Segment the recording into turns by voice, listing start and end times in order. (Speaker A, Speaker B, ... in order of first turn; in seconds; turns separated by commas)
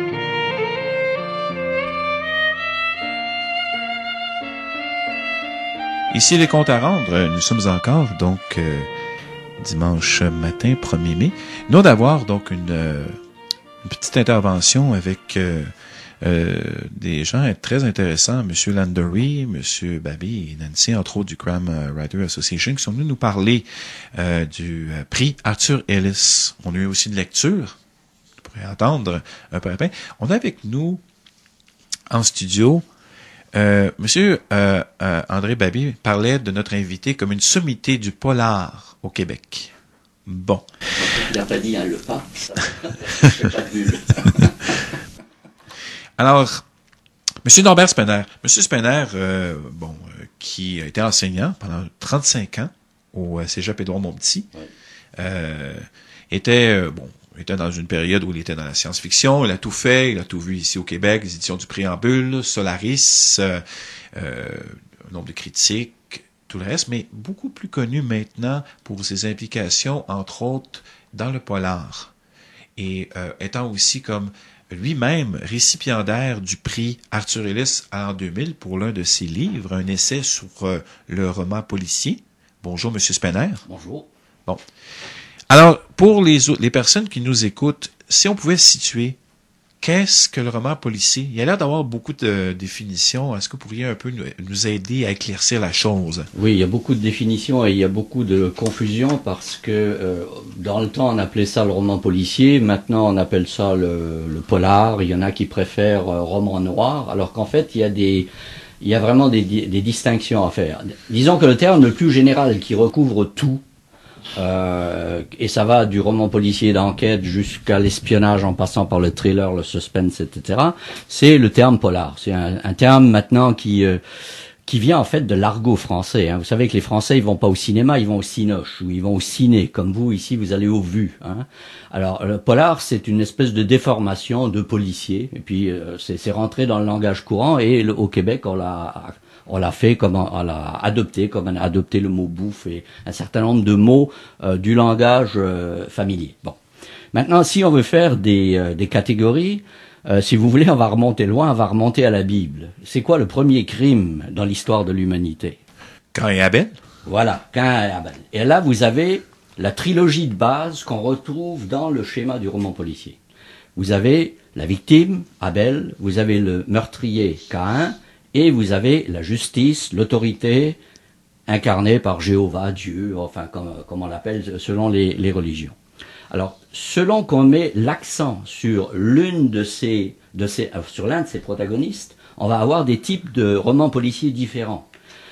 Speaker A: 6.1-8.9, Speaker A: 9.6-13.2, Speaker A: 13.8-27.8, Speaker A: 28.4-31.0, Speaker A: 32.1-32.8, Speaker A: 33.5-39.7, Speaker A: 40.2-40.6, Speaker B: 40.9-44.8, Speaker A: 46.2-46.6, Speaker A: 47.4-54.5, Speaker A: 55.2-63.6, Speaker A: 64.1-72.1, Speaker A: 72.8-83.6, Speaker B: 83.7-84.1, Speaker A: 85.5-89.2, Speaker A: 89.8-96.3, Speaker B: 96.3-108.3, Speaker B: 108.8-113.6, Speaker B: 114.3-124.0, Speaker B: 124.7-146.6, Speaker B: 147.1-155.6, Speaker A: 156.1-156.8, Speaker B: 157.0-163.2, Speaker B: 163.8-170.8, Speaker B: 171.5-175.8, Speaker B: 176.3-184.9